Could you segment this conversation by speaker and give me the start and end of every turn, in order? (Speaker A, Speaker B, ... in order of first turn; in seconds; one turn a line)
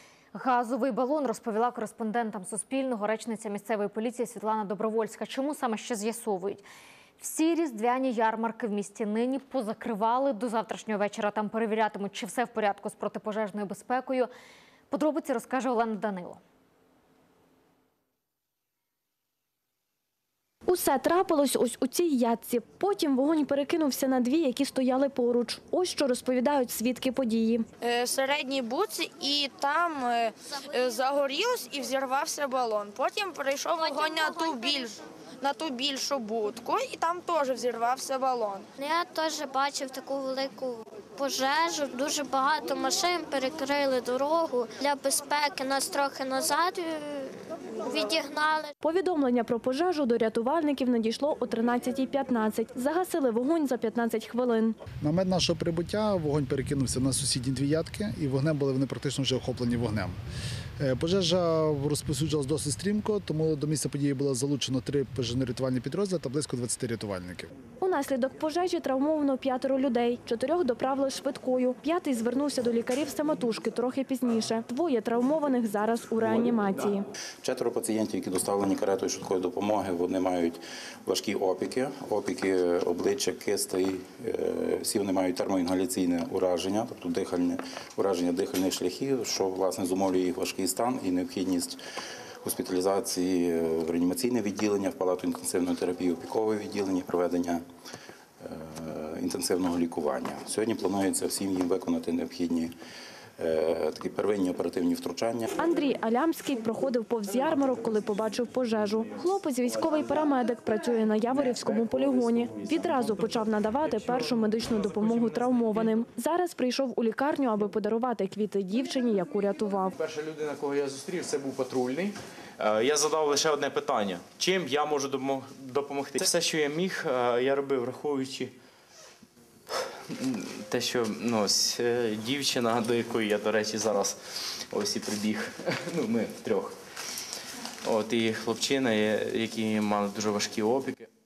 Speaker A: 0.3-6.6
Speaker A: 7.2-14.3
Speaker A: 14.9-16.4
Speaker B: 20.7-27.6
Speaker C: 27.8-38.7
Speaker D: 38.8-48.7
Speaker B: 48.8-54.8
Speaker E: 55.0-60.1
Speaker E: 60.8-67.5
Speaker B: 67.8-77.0
Speaker F: 77.4-91.8
Speaker F: 92.4-97.6
Speaker F: 98.4-102.7
Speaker F: 103.4-105.5
Speaker B: 105.6-119.9
Speaker G: 113.8-115.9
Speaker G: 120.0-128.5
Speaker G: 130.1-134.2
Speaker G: 134.7-136.8
Speaker G: 137.8-141.1